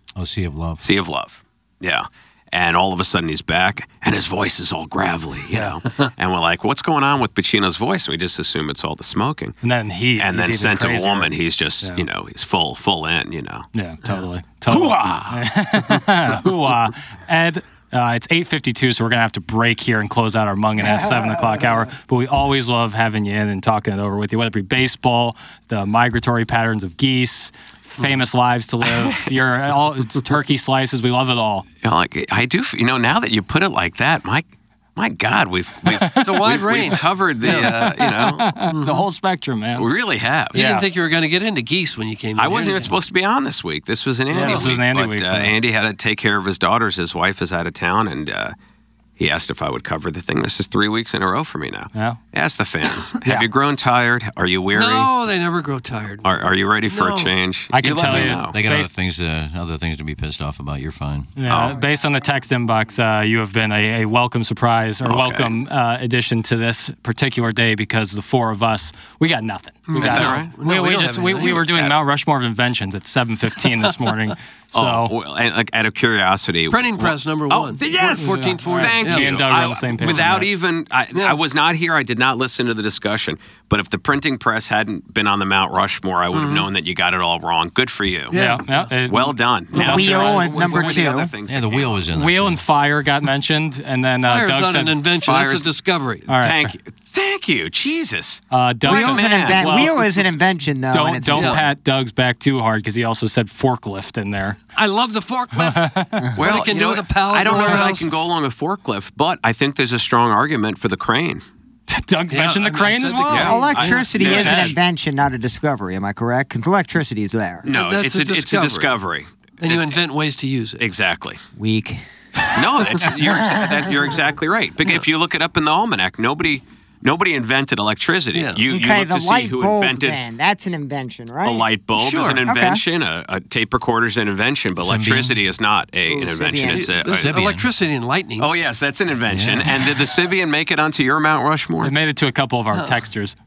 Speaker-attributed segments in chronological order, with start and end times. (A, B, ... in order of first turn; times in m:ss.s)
0:00.2-0:00.8 A
0:00.8-0:09.6 B
0:05.5-0:05.8 C
0:09.6-0:12.1 C
0:10.2-0:13.7 B
0:13.7-0:31.6 C
0:14.7-0:15.4 B
0:31.8-0:38.4 B
0:35.8-0:36.3 C
0:36.2-0:39.1 D
0:37.4-0:39.9 C
0:39.8-0:40.6 B
0:40.5-0:42.9 D
0:40.5-0:40.8 C
0:42.4-0:48.5 B
0:44.3-0:45.6 C
0:44.3-0:44.8 D
0:49.2-0:55.1 B
0:51.9-0:52.2 C
0:54.7-0:57.3 D
0:56.2-0:58.6 B
0:57.7-0:58.9 C
0:58.0-1:01.3 A
1:01.4-1:15.1 C
1:01.5-1:01.8 B
1:05.0-1:05.5 B
1:09.9-1:11.7 D
1:10.0-1:10.5 B
1:11.4-1:12.0 B
1:14.7-1:28.4 B
1:16.7-1:19.4 D
1:17.9-1:20.5 C
1:20.0-1:20.4 D
1:21.1-1:21.4 D
1:26.3-1:26.7 D
1:28.3-1:29.0 D
1:28.3-1:30.4 C
1:29.1-1:32.1 B
1:29.7-1:30.6 D
1:29.7-1:31.3 E
1:31.5-1:32.6 A
1:32.2-1:34.9 C
1:34.2-1:36.3 D
1:35.2-1:35.7 B
1:36.3-1:36.7 C
1:36.3-1:39.9 B
1:38.5-1:40.1 C
1:38.8-1:41.6 E
1:40.9-1:44.6 C
1:41.4-1:41.6 D
1:44.7-1:48.1 D
1:45.6-1:46.3 C
1:46.4-1:51.4 B
1:47.4-1:47.9 C
1:51.9-1:54.7 C
1:52.3-1:54.7 D
1:53.3-1:54.8 B
1:53.4-1:57.7 E
1:57.6-2:00.0 B
1:57.7-1:59.0 D
1:59.6-2:00.8 D
2:00.8-2:01.4 B
2:01.6-2:02.0 E
2:02.5-2:10.2 B
2:03.3-2:03.9 E
2:08.3-2:08.6 D
2:08.7-2:11.7 E
2:11.4-2:17.3 B
2:12.0-2:12.4 D
2:12.4-2:12.8 E
2:14.7-2:15.4 A
2:16.1-2:17.1 E
2:16.7-2:18.5 D
2:17.0-2:17.6 A
2:18.4-2:21.9 B
2:19.3-2:20.2 A
2:21.8-2:23.3 C